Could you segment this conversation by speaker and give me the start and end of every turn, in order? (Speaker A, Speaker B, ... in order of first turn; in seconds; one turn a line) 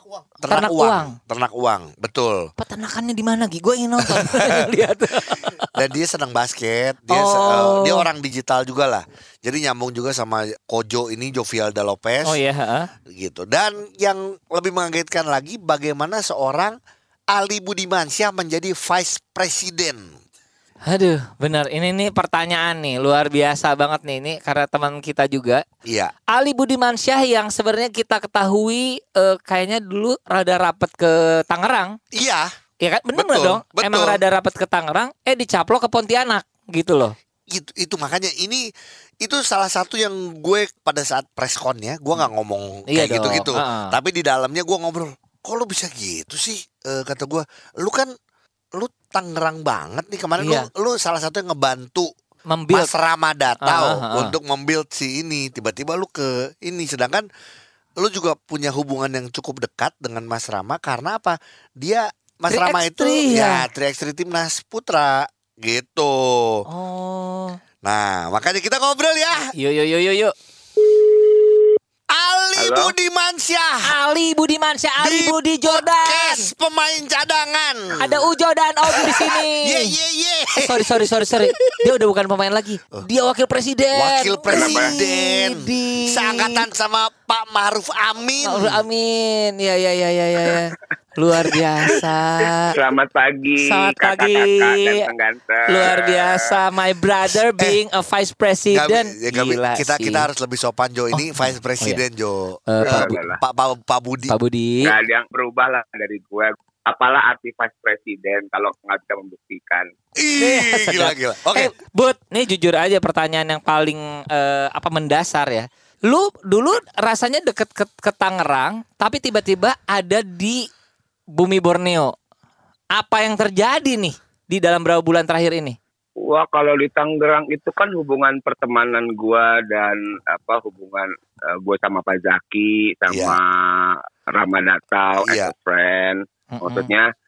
Speaker A: 0.4-2.5
Speaker B: 0.5-1.1
Speaker B: 2.6-5.7
Speaker A: 4.2-4.6
Speaker A: 5.7-12.4
Speaker B: 7.1-8.1
Speaker B: 12.2-12.9
Speaker A: 13.1-16.8
Speaker A: 17.3-20.1
Speaker B: 20.9-25.6
Speaker A: 25.9-26.1
Speaker B: 26.3-31.9
Speaker A: 32.1-32.5
Speaker B: 32.8-37.1
Speaker A: 33.1-34.2
Speaker A: 37.5-38.6
Speaker A: 39.2-48.1
Speaker B: 42.9-43.9
Speaker A: 48.8-52.1
Speaker B: 50.4-50.7
Speaker B: 52.5-52.9
Speaker A: 52.7-57.3
Speaker B: 53.6-54.3
Speaker A: 58.0-66.6
Speaker B: 62.5-63.6
Speaker B: 66.7-67.6
Speaker A: 67.8-69.5
Speaker B: 69.5-70.3
Speaker A: 72.1-73.9
Speaker C: 72.6-72.9
Speaker B: 73.8-76.5
Speaker A: 75.0-78.2
Speaker B: 78.0-79.9
Speaker A: 78.9-81.8
Speaker B: 80.6-86.7
Speaker A: 83.9-88.8
Speaker C: 84.5-84.9
Speaker B: 88.4-92.7
Speaker C: 92.7-96.5
Speaker B: 93.6-95.0
Speaker B: 95.7-100.3
Speaker A: 98.7-104.3
Speaker B: 101.1-102.0
Speaker B: 102.7-103.1
Speaker C: 102.8-103.4
Speaker B: 104.3-104.9
Speaker C: 104.8-109.9
Speaker A: 110.2-111.7
Speaker B: 110.4-120.7
Speaker B: 121.3-122.1
Speaker B: 122.9-125.8
Speaker C: 126.2-137.1
Speaker A: 133.1-133.4
Speaker A: 135.2-135.5
Speaker B: 136.5-136.9